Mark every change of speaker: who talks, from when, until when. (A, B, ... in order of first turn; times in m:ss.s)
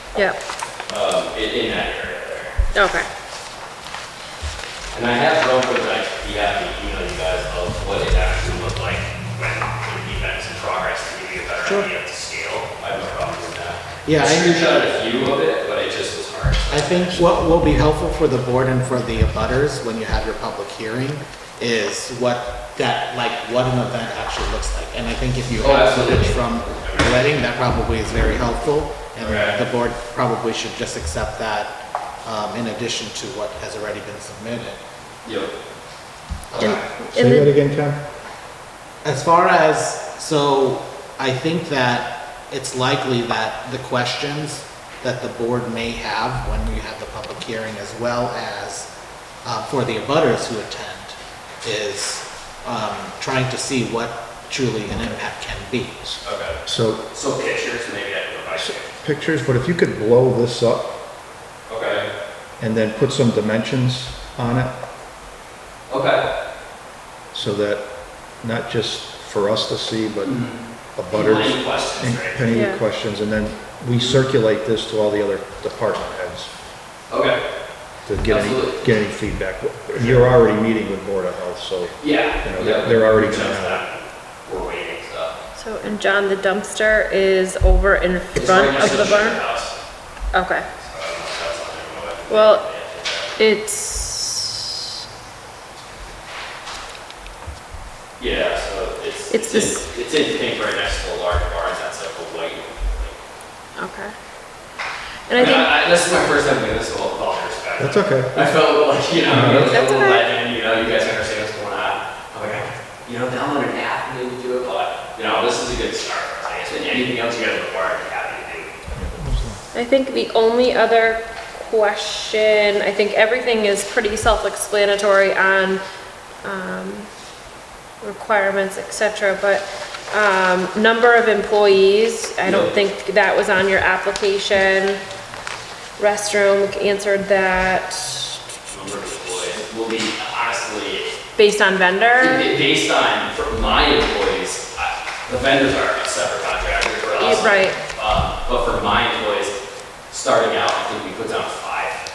0:00.9-0:02.6 A
0:02.7-0:03.1 B
0:04.9-0:17.2 A
0:11.6-0:11.9 C
0:14.0-0:14.9 C
0:16.7-0:34.8 C
0:25.6-0:27.3 A
0:29.2-0:29.6 A
0:35.2-0:35.5 A
0:36.5-0:36.8 C
0:36.6-0:37.5 B
0:36.7-0:38.1 D
0:39.0-0:48.9 C
0:49.4-0:56.0 C
0:56.0-0:57.0 D
0:56.2-0:56.6 A
0:57.1-0:58.9 A
0:58.6-1:00.9 D
1:01.7-1:02.1 A
1:02.6-1:04.8 D
1:05.9-1:06.2 A
1:07.3-1:10.4 D
1:10.2-1:10.6 A
1:10.9-1:16.5 D
1:11.1-1:12.4 A
1:12.5-1:12.8 B
1:14.0-1:14.2 A
1:17.1-1:17.4 A
1:18.0-1:23.8 D
1:18.2-1:18.8 A
1:20.0-1:20.2 A
1:22.0-1:25.3 A
1:25.5-1:29.4 B
1:28.3-1:29.7 A
1:30.3-1:30.6 B
1:30.8-1:33.4 A
1:32.3-1:32.6 B
1:33.4-1:34.7 B
1:38.2-1:43.2 A
1:39.3-1:39.8 B
1:43.8-1:44.1 B
1:45.3-1:45.7 B
1:45.3-1:58.7 A
1:47.8-1:48.6 D
1:49.2-1:49.8 D
1:49.7-1:50.2 B
1:58.9-1:59.6 D
1:59.7-2:05.8 B
2:06.4-2:07.1 B
2:08.0-2:15.0 B
2:12.4-2:12.7 A
2:16.0-2:18.5 B
2:18.7-2:21.1 A
2:21.4-2:22.4 B
2:22.2-2:29.6 A
2:27.2-2:27.8 B
2:30.1-2:32.0 A